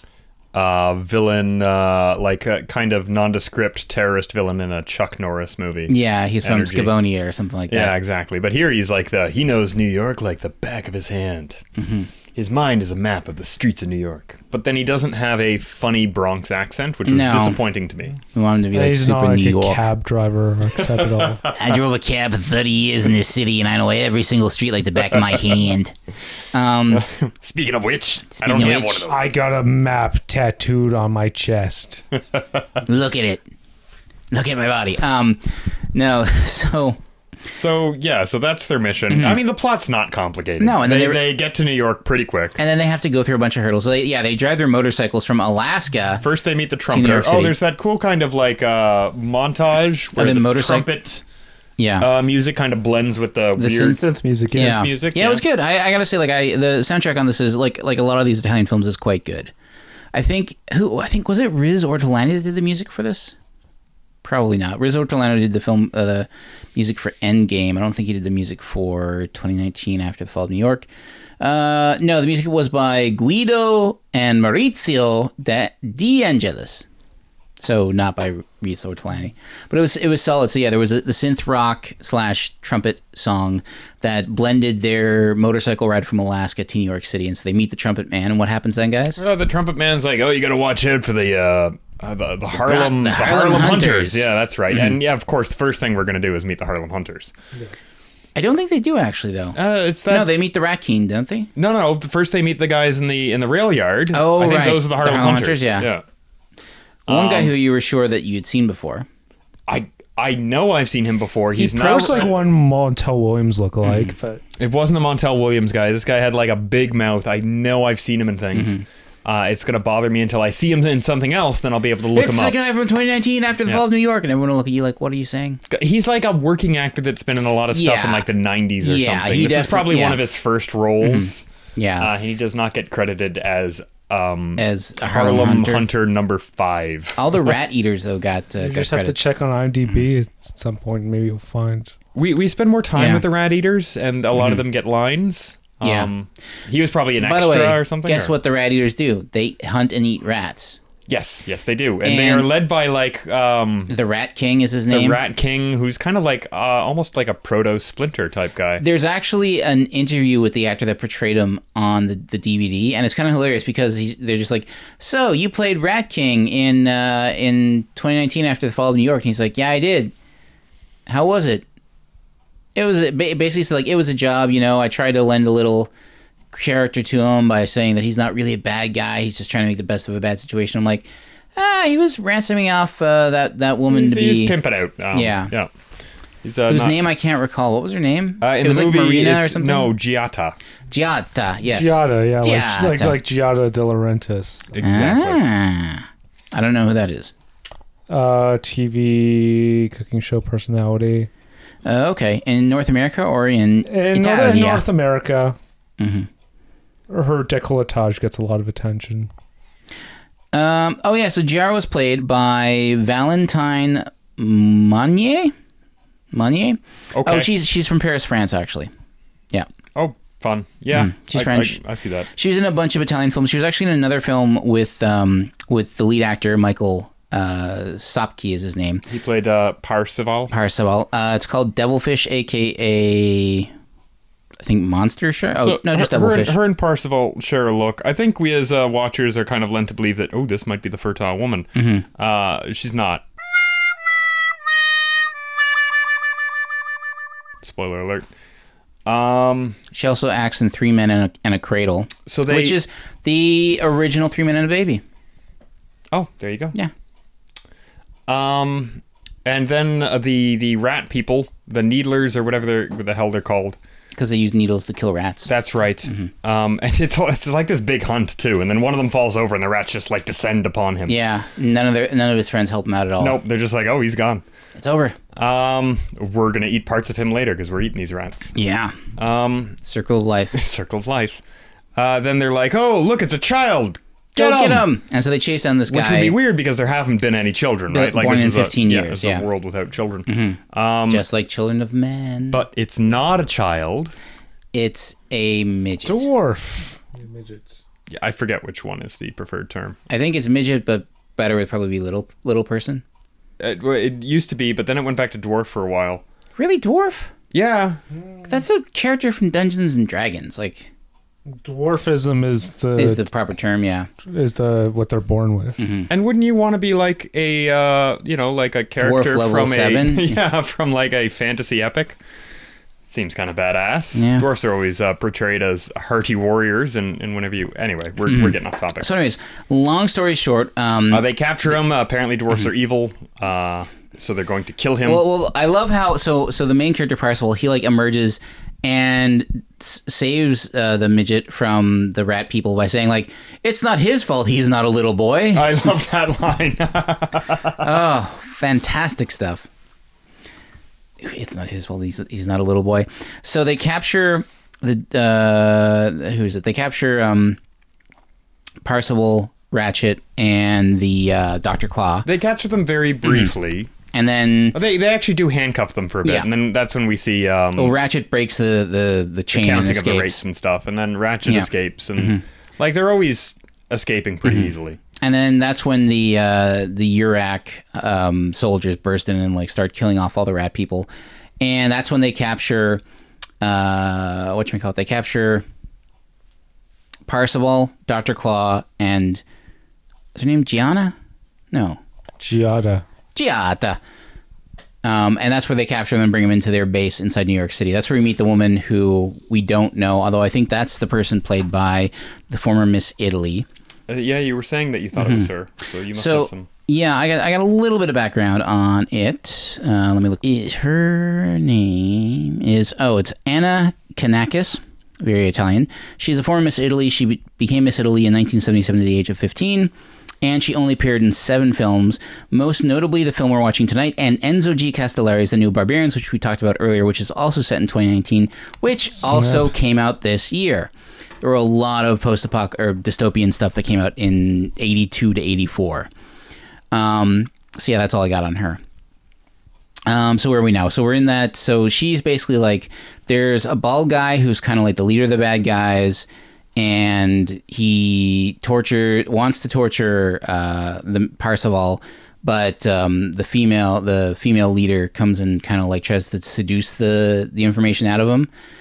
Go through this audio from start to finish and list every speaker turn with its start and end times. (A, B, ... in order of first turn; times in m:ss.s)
0:00.5-0:06.9 A
0:05.9-0:07.9 B
0:07.7-0:11.6 A
0:11.8-0:12.1 B
0:12.3-0:18.2 A
0:17.0-0:17.6 B
0:18.3-0:19.8 B
0:18.7-0:21.4 C
0:20.8-0:21.8 A
0:21.5-0:25.9 B
0:26.5-0:27.0 B
0:26.9-0:29.4 A
0:28.3-0:29.1 B
0:29.1-0:32.0 C
0:32.8-0:33.4 B
0:34.3-0:35.4 B
0:35.9-0:37.0 B
0:37.5-0:42.6 A
0:39.1-0:39.4 B
0:40.6-0:41.3 B
0:42.6-0:46.2 B
0:46.2-0:51.2 A
0:46.9-0:47.6 B
0:50.2-0:50.9 B
0:51.8-0:52.1 B
0:52.0-0:55.4 A
0:53.6-0:59.5 B
0:54.0-0:54.9 C
1:00.1-1:03.4 B
1:04.2-1:10.9 B
1:11.4-1:16.8 B
1:17.6-1:29.2 B
1:29.2-1:37.3 A
1:32.6-1:35.0 B
1:38.4-1:41.5 B
1:39.5-1:40.3 A
1:41.6-1:46.0 A
1:44.1-1:45.9 B
1:47.1-1:47.5 A
1:47.1-1:49.0 B
1:49.7-1:52.4 A
1:51.6-1:54.4 C
1:53.8-1:54.1 B
1:54.6-2:02.6 A
1:58.5-1:58.8 B
2:02.1-2:05.6 B
2:05.7-2:11.4 A
2:07.7-2:08.2 B
2:08.8-2:10.2 B
2:11.0-2:12.1 B
2:12.0-2:17.5 A
2:14.6-2:15.9 B
2:17.2-2:19.3 B
2:18.6-2:21.9 C
2:22.1-2:28.3 A
2:23.0-2:23.2 B
2:24.4-2:24.6 B
2:25.8-2:26.1 B
2:27.2-2:30.8 B
2:31.1-2:33.9 A
2:32.0-2:32.5 B
2:33.9-2:35.2 B
2:34.9-2:38.8 A
2:38.8-2:50.1 B
2:51.1-2:51.6 B
2:52.8-2:55.9 B
2:56.5-3:04.6 B
3:03.9-3:05.7 A
3:05.1-3:05.5 B
3:06.4-3:07.0 A
3:06.7-3:09.9 B
3:08.4-3:10.6 A
3:10.9-3:13.2 B
3:11.7-3:14.7 C
3:14.7-3:15.4 A
3:14.8-3:17.3 B
3:18.1-3:21.3 C
3:21.8-3:24.8 B
3:23.9-3:25.6 C
3:26.0-3:26.3 B
3:27.1-3:29.3 C
3:30.5-3:35.5 B
3:36.3-3:38.9 B
3:37.1-3:37.5 A
3:39.9-3:42.3 A
3:40.9-3:41.8 B
3:42.3-3:49.0 B
3:49.1-3:50.5 A
3:50.5-3:53.7 B
3:54.6-3:56.6 B
3:55.6-4:03.2 A
4:01.7-4:02.0 B
4:07.6-4:08.3 A
4:09.0-4:09.8 A
4:09.9-4:15.0 B
4:12.2-4:12.8 A
4:16.1-4:16.7 A
4:18.3-4:23.8 A
4:24.1-4:25.5 B
4:25.5-4:31.2 A
4:26.0-4:26.3 B
4:31.1-4:33.4 B
4:33.2-4:34.4 A
4:34.8-4:35.2 B
4:35.3-4:38.5 A
4:38.5-4:39.0 B
4:39.2-4:39.8 A
4:39.8-4:40.6 B
4:40.5-4:41.4 A
4:42.0-4:44.9 A
4:44.4-4:46.4 B
4:45.9-4:51.2 A
4:47.9-4:49.5 B
4:50.3-4:52.6 B
4:52.5-4:54.1 A
4:54.7-4:56.3 B
4:56.0-4:57.7 C
4:58.1-5:00.0 A
5:00.1-5:03.0 B
5:03.6-5:06.2 A
5:06.6-5:07.3 B
5:07.5-5:08.0 A
5:08.5-5:10.9 B
5:11.6-5:13.2 C
5:13.0-5:14.1 B
5:14.2-5:15.8 C
5:15.8-5:16.1 B
5:16.1-5:22.2 A
5:19.0-5:20.4 B
5:23.1-5:29.1 A
5:24.2-5:24.5 B
5:28.3-5:31.3 B
5:31.1-5:35.2 A
5:35.0-5:46.0 B
5:45.5-5:47.9 A
5:47.8-5:49.7 B
5:51.2-5:57.6 B
5:58.8-6:02.3 B
6:02.2-6:03.9 A
6:03.2-6:03.5 B
6:04.1-6:04.8 B
6:04.7-6:08.0 A
6:07.8-6:10.4 B
6:09.5-6:15.0 A
6:11.5-6:12.4 B
6:14.4-6:21.1 B
6:21.6-6:23.0 B
6:23.6-6:25.6 B
6:27.3-6:29.4 B
6:30.3-6:31.1 B
6:31.7-6:32.0 B
6:32.4-6:33.0 C
6:33.3-6:34.0 B
6:35.0-6:43.7 B
6:44.1-6:46.7 A
6:45.2-6:45.5 B
6:46.1-7:16.1 B
7:09.2-7:09.7 C
7:16.9-7:18.8 B
7:20.1-7:38.5 B